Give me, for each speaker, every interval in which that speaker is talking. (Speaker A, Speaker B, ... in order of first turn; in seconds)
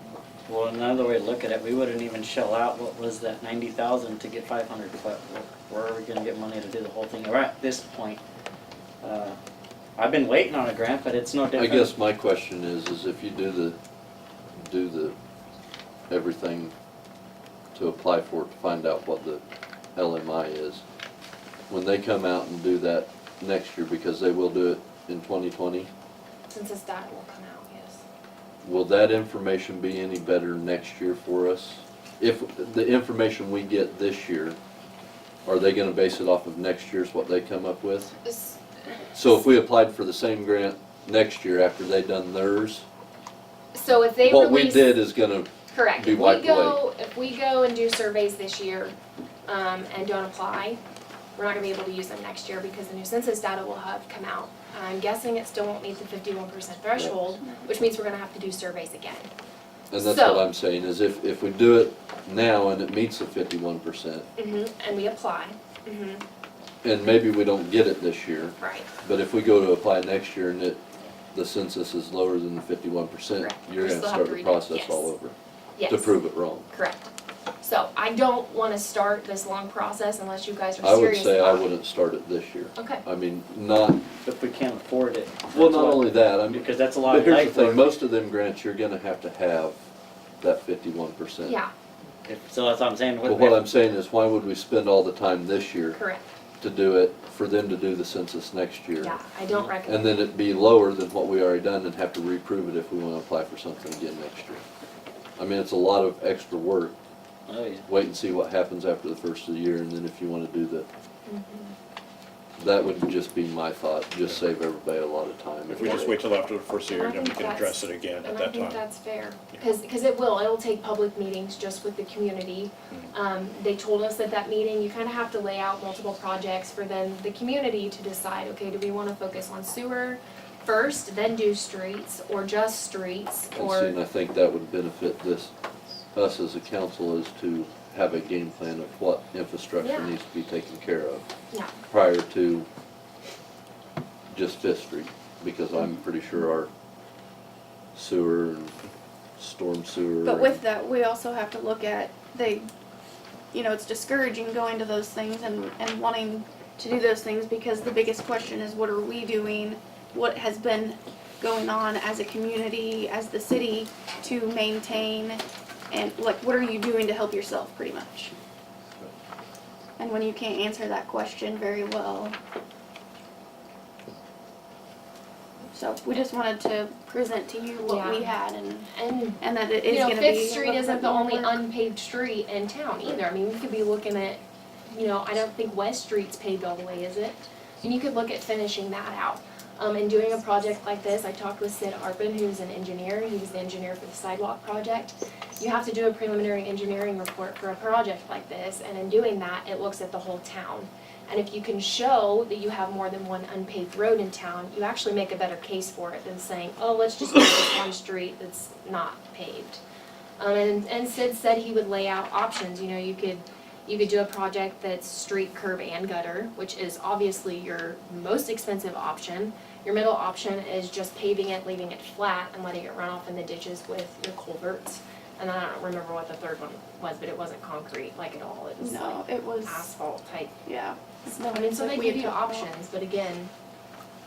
Speaker A: 0.5-8.2, 9.0-9.4, 10.0-11.9, 84.2-87.9, 92.2-93.6, 107.5-107.9
Speaker B: 11.6-13.8, 14.6-15.2, 16.1-16.7, 17.7-19.4, 20.0-20.8, 21.7-25.9, 28.6-34.6, 35.5-38.2, 39.1-42.9, 44.2-46.8, 59.9-64.3, 66.8-70.8, 71.3-75.3, 75.9-76.7, 80.8-84.0, 85.5-89.8, 90.4-91.6, 93.2-96.0, 96.6-99.2, 99.8-104.6, 105.4-107.0, 107.9-110.9, 112.6-116.2, 133.6-135.5, 136.2-141.3, 141.9-142.7, 144.3-146.7, 147.9-148.8, 149.4-150.6
Speaker C: 26.5-28.0, 38.2-39.0, 43.7-44.9, 45.7-49.0, 49.5-50.8, 51.4-59.3, 60.0-60.5, 64.4-66.2, 68.6-68.9, 73.4-75.1, 75.8-77.1, 77.6-81.7, 82.8-83.0, 91.4-91.7, 95.9-96.3, 99.0-100.2, 111.3-111.8, 115.8-116.2, 116.9-134.0, 139.8-140.2, 145.8-146.4, 177.8-178.4, 178.9-209.8, 210.4-230.6, 231.3-233.5
Speaker D: 115.7-118.8
Speaker E: 150.2-152.7, 153.5-168.3, 170.0-172.3, 175.7-181.6, 228.8-229.9, 230.7-232.7